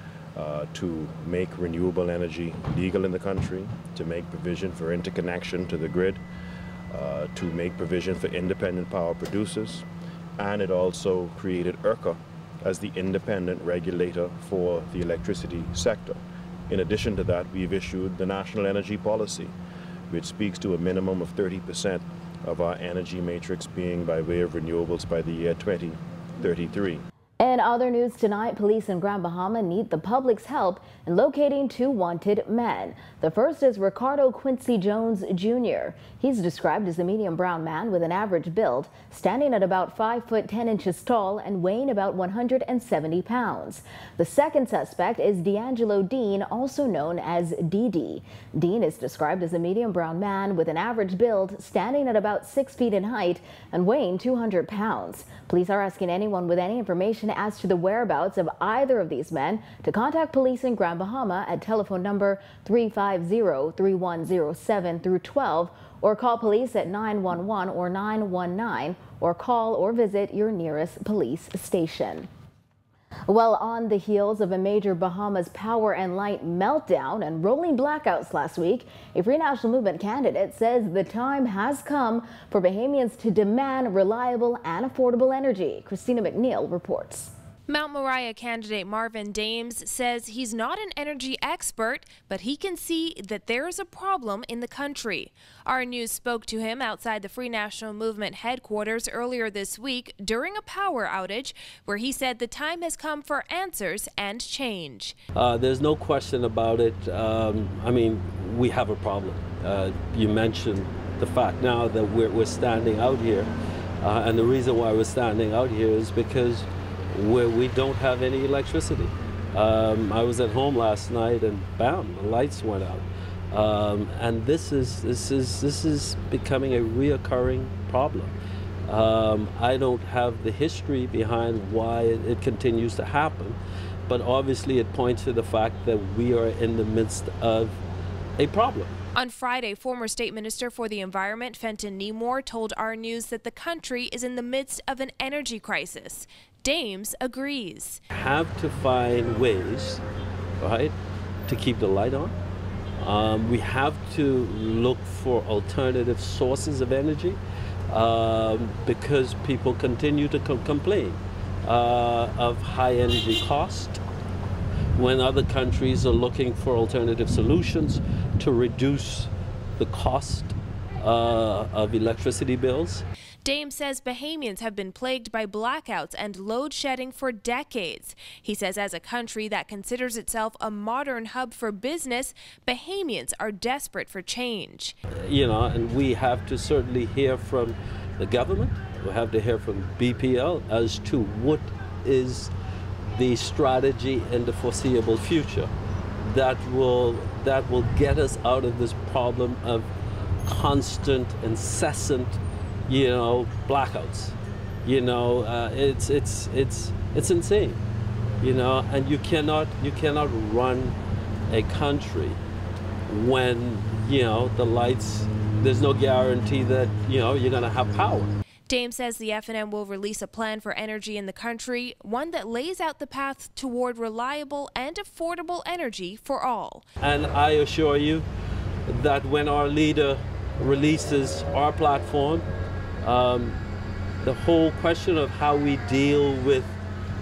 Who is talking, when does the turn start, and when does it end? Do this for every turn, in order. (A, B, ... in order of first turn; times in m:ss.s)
0:00.4-0:06.2 A
0:06.9-0:09.9 A
0:10.4-0:19.6 A
0:20.1-0:27.0 A
0:27.4-1:12.3 B
1:13.3-1:27.3 B
1:27.7-1:45.2 C
1:45.4-2:08.3 D
2:08.8-2:17.8 D
2:18.4-2:19.0 D
2:19.1-2:28.0 C
2:28.1-2:30.0 D
2:30.6-2:31.0 D
2:31.5-2:32.4 D
2:33.0-2:37.4 D
2:37.9-2:44.0 D
2:45.0-2:53.0 D
2:53.4-3:05.0 C
3:05.2-3:12.5 D
3:13.1-3:15.7 D
3:16.2-3:19.9 D
3:20.4-3:27.8 D
3:28.4-3:31.0 D
3:31.5-3:32.4 D
3:33.1-3:38.3 D
3:38.7-3:46.8 C
3:47.0-3:48.3 D
3:48.9-3:52.5 D
3:53.0-3:53.6 D
3:54.2-3:56.8 D